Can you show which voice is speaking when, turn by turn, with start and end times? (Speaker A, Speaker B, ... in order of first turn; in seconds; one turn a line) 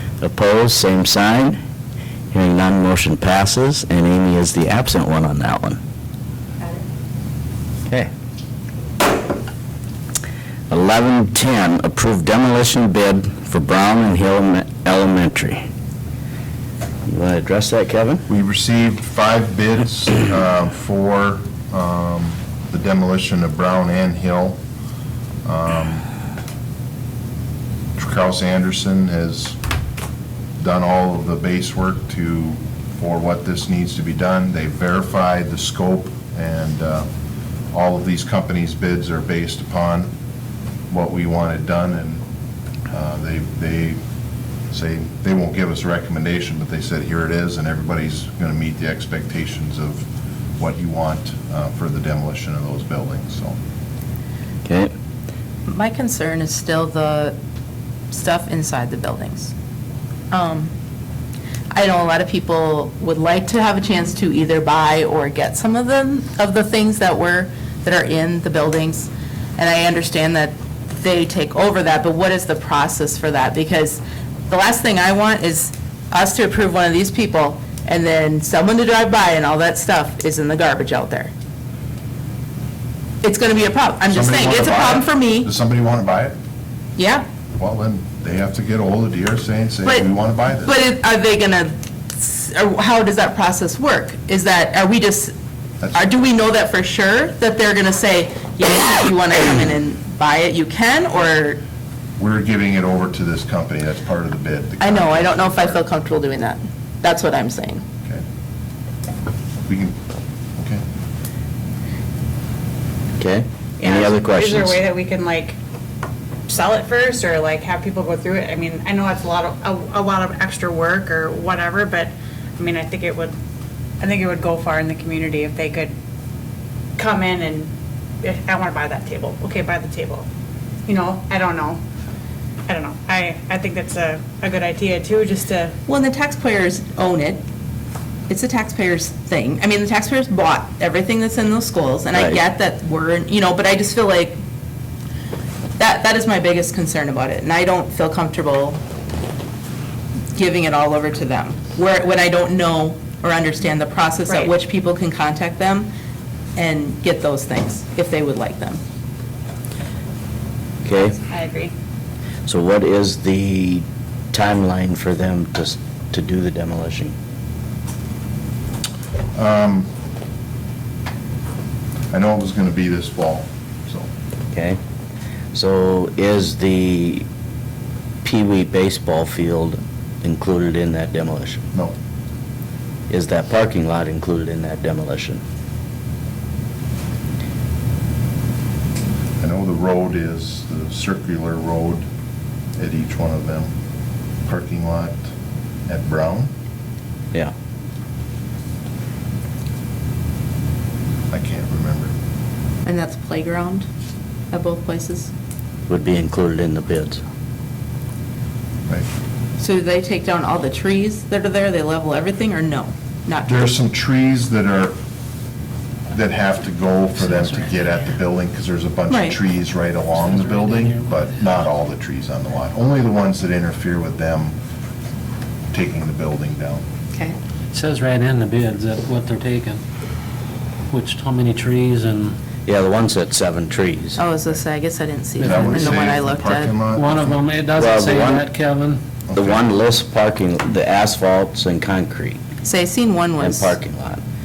Speaker A: 0.2-1.6
Speaker A: 2.3-5.8
Speaker A: 10.7-15.7
Speaker A: 17.1-18.2
Speaker B: 18.3-24.6
Speaker B: 25.4-26.1
Speaker B: 28.0-29.6
Speaker B: 30.6-37.1
Speaker B: 37.7-40.1
Speaker B: 40.9-42.2
Speaker B: 42.9-44.0
Speaker B: 44.7-50.1
Speaker B: 50.6-53.6
Speaker A: 54.6-54.9
Speaker C: 55.7-57.4
Speaker C: 58.1-59.5
Speaker C: 60.3-60.7
Speaker C: 61.7-81.3
Speaker C: 83.2-85.5
Speaker B: 84.1-86.4
Speaker C: 87.0-87.2
Speaker B: 87.6-90.7
Speaker C: 89.8-95.3
Speaker C: 96.0-101.6
Speaker B: 102.2-105.8
Speaker C: 104.8-107.8
Speaker B: 109.7-110.0
Speaker B: 110.6-110.8
Speaker A: 113.2-114.8
Speaker D: 113.8-115.6
Speaker D: 116.5-123.3
Speaker D: 124.0-125.9
Speaker D: 127.0-127.7
Speaker D: 128.2-130.3
Speaker D: 130.9-131.8
Speaker D: 132.7-135.8
Speaker C: 135.9-137.4
Speaker C: 138.3-144.4
Speaker A: 142.2-142.4
Speaker C: 145.8-148.8
Speaker C: 150.3-155.9
Speaker D: 154.3-154.5
Speaker C: 156.6-158.8
Speaker A: 160.8-161.2
Speaker D: 161.2-161.7
Speaker A: 162.5-167.2
Speaker B: 169.3-169.9
Speaker B: 172.1-174.1
Speaker A: 174.5-174.8
Speaker A: 175.5-177.3
Speaker A: 178.2-181.6
Speaker A: 183.1-185.4
Speaker B: 189.4-192.1
Speaker B: 192.8-193.7
Speaker B: 194.4-195.3
Speaker B: 195.9-196.5
Speaker B: 201.3-202.1
Speaker C: 202.8-203.9
Speaker C: 204.5-205.3
Speaker A: 205.9-207.2
Speaker C: 209.6-213.7
Speaker B: 213.5-215.0
Speaker B: 216.1-224.6
Speaker C: 219.1-219.4
Speaker E: 220.2-221.5
Speaker B: 225.7-226.8
Speaker E: 227.7-229.8
Speaker E: 230.9-232.4
Speaker A: 232.7-234.2
Speaker C: 234.2-236.8
Speaker E: 235.4-236.1
Speaker B: 235.4-237.4
Speaker E: 236.9-239.0
Speaker A: 237.8-238.4
Speaker B: 239.3-239.7
Speaker A: 239.3-242.4
Speaker C: 242.6-243.8
Speaker A: 243.4-244.2